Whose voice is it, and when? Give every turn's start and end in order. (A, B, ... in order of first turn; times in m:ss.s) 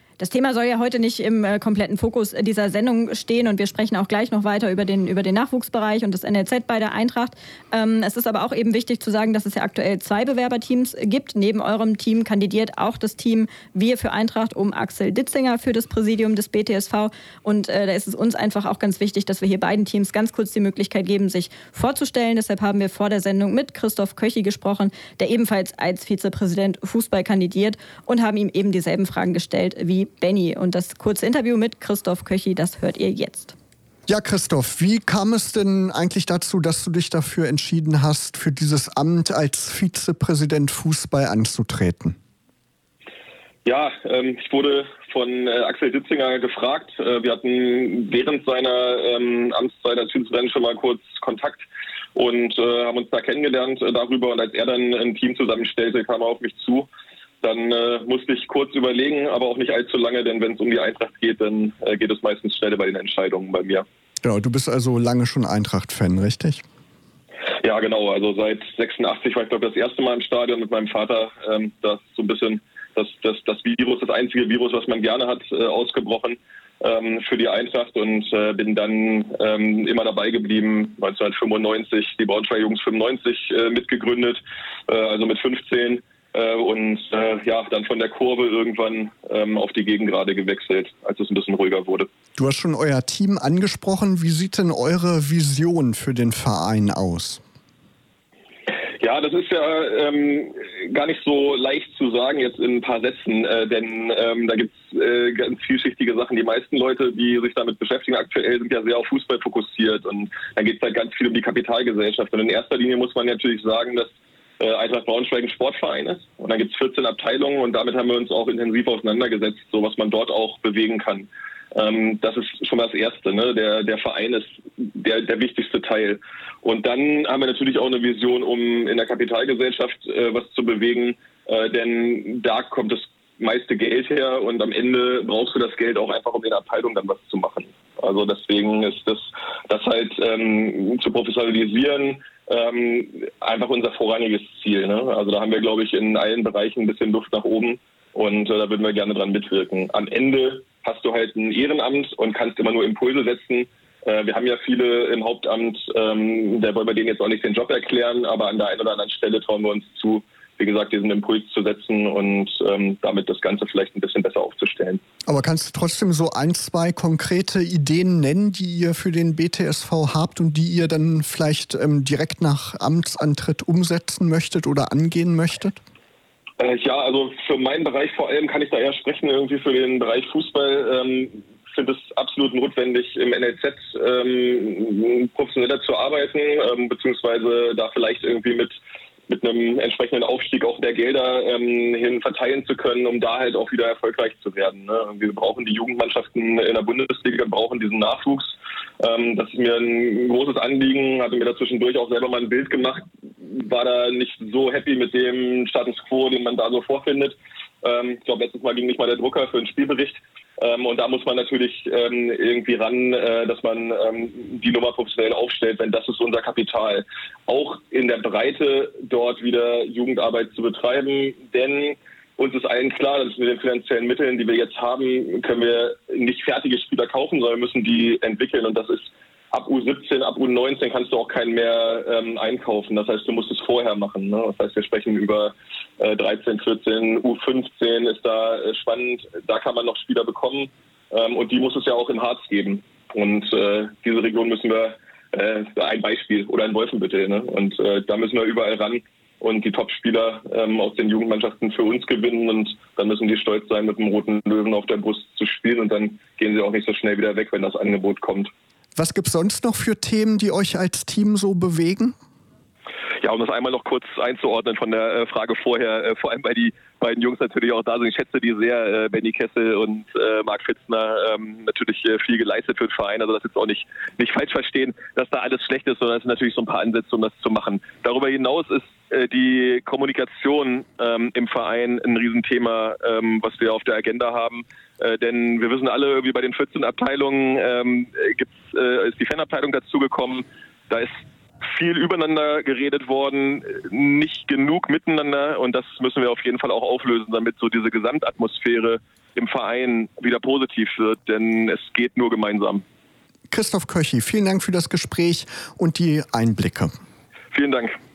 0:00.2-0:33.5 A
0:34.1-0:42.2 B
0:43.6-0:56.9 C
0:57.4-1:03.8 C
1:04.2-1:06.6 B
1:07.6-1:32.1 C
1:32.4-1:37.4 B
1:39.0-2:45.0 C
2:45.3-2:55.8 B
2:56.6-3:08.7 C
3:09.3-4:18.5 C
4:19.0-4:22.2 B
4:23.2-5:02.8 C
5:03.5-5:06.9 B
5:07.5-5:08.0 C